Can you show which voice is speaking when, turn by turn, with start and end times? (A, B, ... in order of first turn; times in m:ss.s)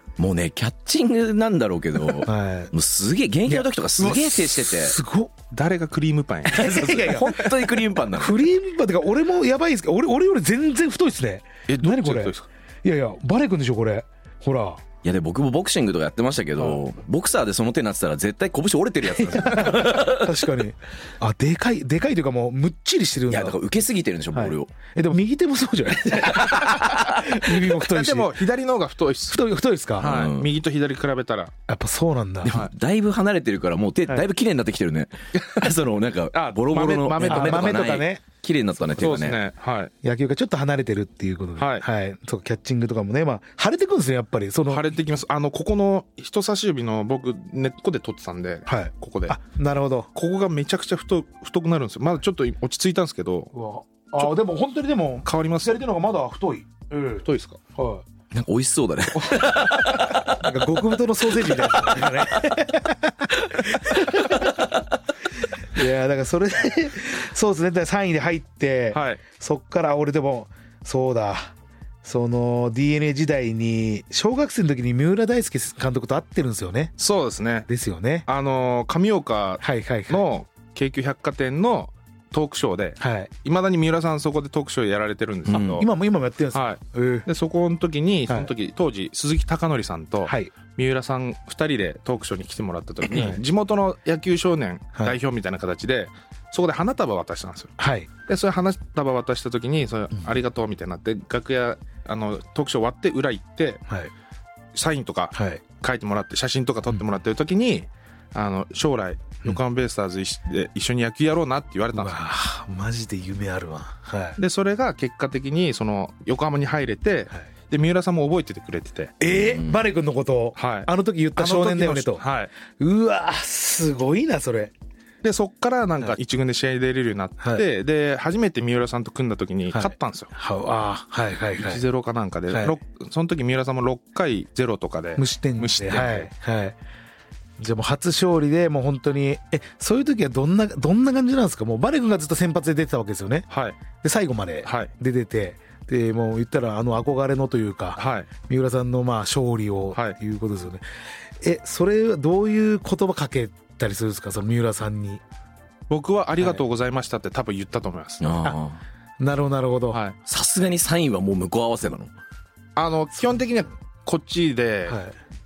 0:00.2-0:05.0 A
0:02.2-0:02.7 B
0:03.5-0:05.3 B
0:05.5-0:07.5 C
0:06.6-0:07.5 B
0:06.6-0:08.4 A
0:08.2-0:14.8 B
0:11.7-0:12.5 C
0:15.0-0:20.4 A
0:19.2-0:23.6 B
0:23.3-0:24.7 A
0:24.3-0:28.3 B
0:26.3-0:27.3 A
0:27.6-0:29.4 C
0:29.3-0:30.1 B
0:30.0-0:31.5 C
0:30.0-0:30.5 A
0:31.7-0:32.6 B
0:32.4-0:39.4 A
0:36.3-0:37.9 C
0:37.2-0:38.2 B
0:38.8-0:39.0 B
0:39.0-0:39.9 C
0:40.0-0:44.8 B
0:41.6-0:41.8 C
0:44.7-0:49.4 C
0:48.7-0:50.1 B
0:50.1-0:53.5 C
0:53.5-0:58.0 B
0:55.2-0:55.8 C
0:57.2-0:57.6 C
0:58.3-1:00.4 A
0:59.3-0:59.6 C
1:00.3-1:04.7 B
1:05.7-1:11.5 B
1:08.9-1:09.2 C
1:12.0-1:16.9 B
1:17.0-1:17.7 C
1:17.7-1:18.2 B
1:18.3-1:25.9 C
1:19.6-1:20.3 B
1:23.0-1:23.3 B
1:25.5-1:25.8 A
1:25.5-1:27.2 B
1:26.5-1:37.7 C
1:30.2-1:30.5 B
1:33.1-1:33.4 B
1:37.8-1:38.1 B
1:38.3-1:43.8 C
1:44.7-1:52.2 C
1:45.3-1:45.6 B
1:51.9-1:54.4 B
1:54.4-1:59.2 C
1:59.2-2:02.2 B
1:59.3-1:59.8 A
2:00.6-2:02.5 C
2:02.8-2:04.7 B
2:05.2-2:10.3 C
2:09.7-2:11.8 B
2:11.6-2:16.3 C
2:12.5-2:12.8 B
2:15.2-2:16.8 B
2:17.6-2:23.5 B
2:23.5-2:23.8 C
2:24.0-2:30.8 B
2:24.6-2:24.9 C
2:28.0-2:28.3 C
2:31.4-2:35.2 B
2:35.9-2:38.3 C
2:38.2-2:38.8 A
2:39.2-2:40.0 B
2:39.9-2:40.2 C
2:40.3-2:42.1 A
2:42.8-2:45.0 C
2:44.9-2:45.1 B